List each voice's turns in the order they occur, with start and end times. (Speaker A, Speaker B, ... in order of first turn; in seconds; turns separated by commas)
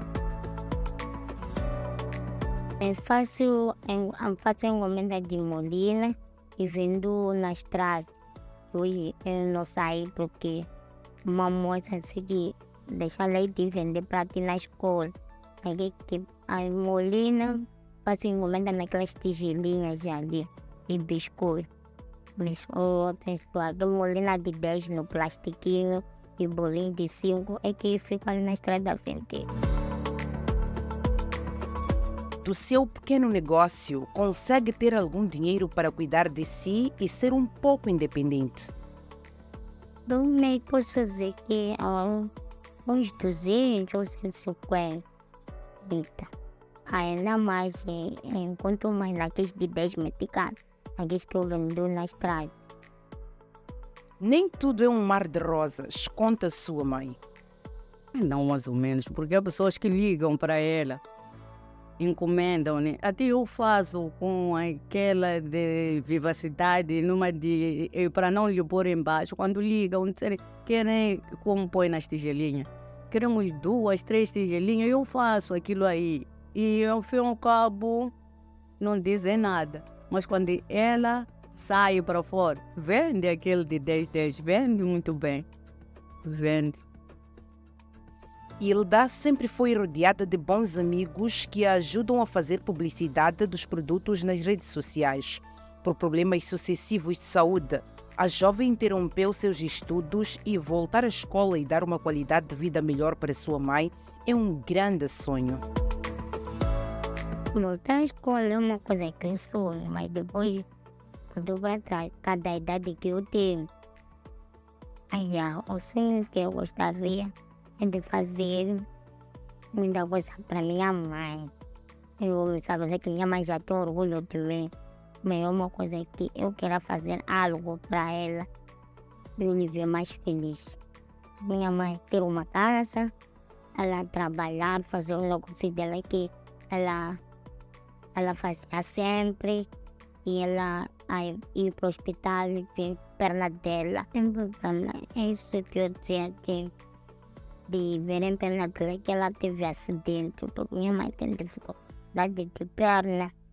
Speaker A: 2.8-8.1, Speaker A: 8.7-10.7, Speaker A: 11.2-21.7, Speaker A: 22.4-29.5, Speaker B: 32.4-38.7, Speaker A: 40.0-42.3, Speaker A: 42.9-45.0, Speaker A: 45.8-46.3, Speaker A: 46.9-52.5, Speaker B: 54.2-57.2, Speaker C: 58.1-61.0, Speaker C: 62.0-78.1, Speaker C: 78.8-85.5, Speaker C: 86.2-86.8, Speaker B: 88.6-105.6, Speaker A: 107.5-110.7, Speaker A: 111.3-113.7, Speaker A: 115.1-118.8, Speaker A: 119.7-121.5, Speaker A: 122.2-124.7, Speaker A: 125.2-128.5, Speaker A: 129.4-130.8, Speaker A: 131.4-133.1, Speaker A: 133.8-137.2, Speaker A: 138.1-139.7, Speaker A: 140.2-146.7, Speaker A: 147.7-153.3